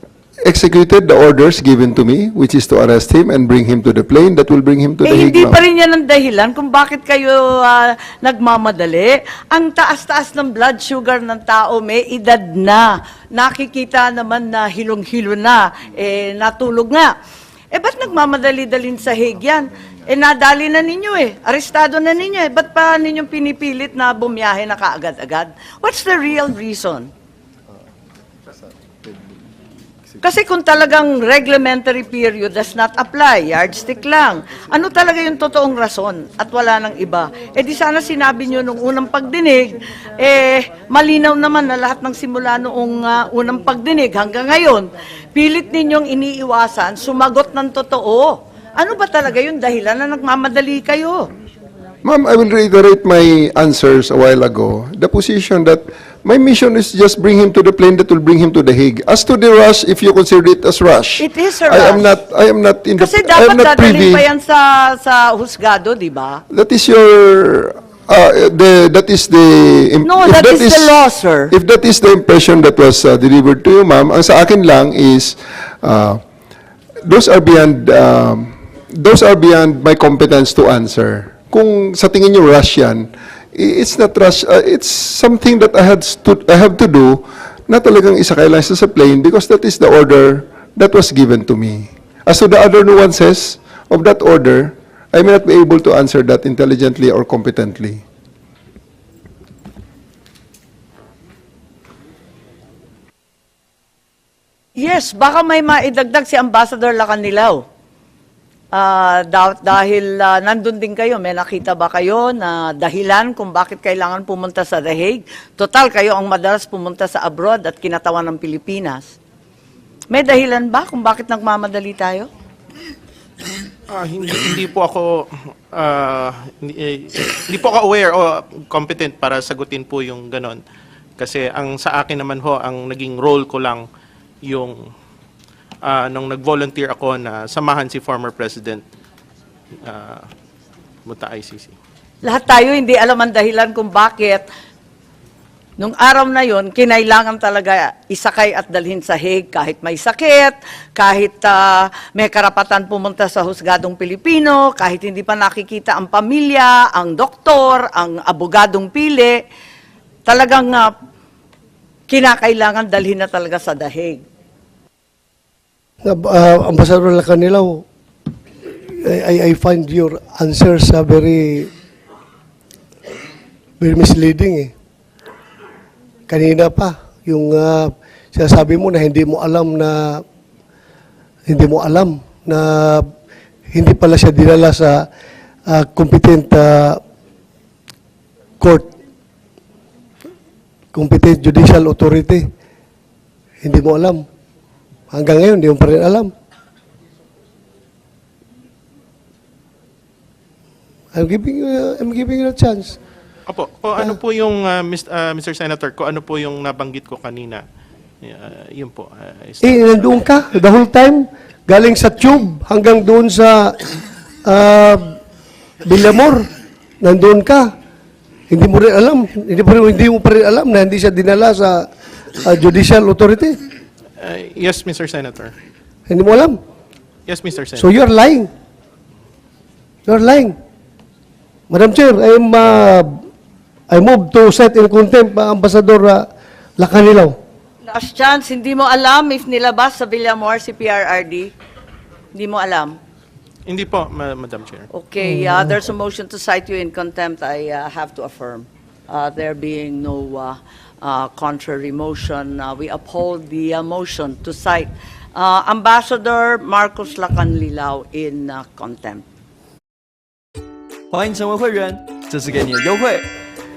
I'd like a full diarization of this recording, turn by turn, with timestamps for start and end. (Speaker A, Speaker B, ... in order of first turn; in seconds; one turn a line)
Speaker A: 0.4-5.6
Speaker B: 5.0-17.1
Speaker B: 17.7-27.1
Speaker B: 30.2-51.3
Speaker A: 52.0-64.2
Speaker B: 61.2-62.2
Speaker B: 63.0-66.4
Speaker A: 66.5-71.0
Speaker B: 70.0-71.5
Speaker A: 71.5-76.2
Speaker A: 77.0-98.0
Speaker B: 104.8-107.6
Speaker B: 108.7-119.2
Speaker B: 120.1-122.3
Speaker C: 123.9-130.6
Speaker C: 131.2-133.8
Speaker C: 134.4-134.8
Speaker C: 135.8-138.8
Speaker C: 139.8-140.3
Speaker C: 141.0-141.7
Speaker B: 142.2-144.4
Speaker B: 145.8-159.4
Speaker B: 160.2-160.9
Speaker B: 162.1-164.2
Speaker D: 166.0-167.8
Speaker D: 168.9-171.7
Speaker D: 173.8-174.7
Speaker D: 176.3-180.2
Speaker D: 181.5-183.1
Speaker D: 183.7-185.1
Speaker D: 185.7-187.0
Speaker D: 188.6-188.9
Speaker D: 190.9-192.5
Speaker D: 193.6-194.2
Speaker D: 195.1-196.3
Speaker D: 201.1-203.0
Speaker C: 203.5-207.6
Speaker C: 208.2-209.7
Speaker D: 209.6-213.8
Speaker D: 214.4-215.2
Speaker D: 215.8-216.5
Speaker D: 217.0-217.7
Speaker D: 218.5-223.6
Speaker C: 224.2-225.5
Speaker D: 226.1-226.6
Speaker C: 227.3-227.8
Speaker D: 227.8-228.5
Speaker D: 230.1-230.5
Speaker D: 231.7-233.2
Speaker D: 233.9-236.2
Speaker D: 236.8-237.3
Speaker B: 237.8-241.5
Speaker B: 242.3-243.0
Speaker C: 243.7-244.9
Speaker B: 244.9-259.2
Speaker D: 245.2-245.8
Speaker E: 261.1-263.2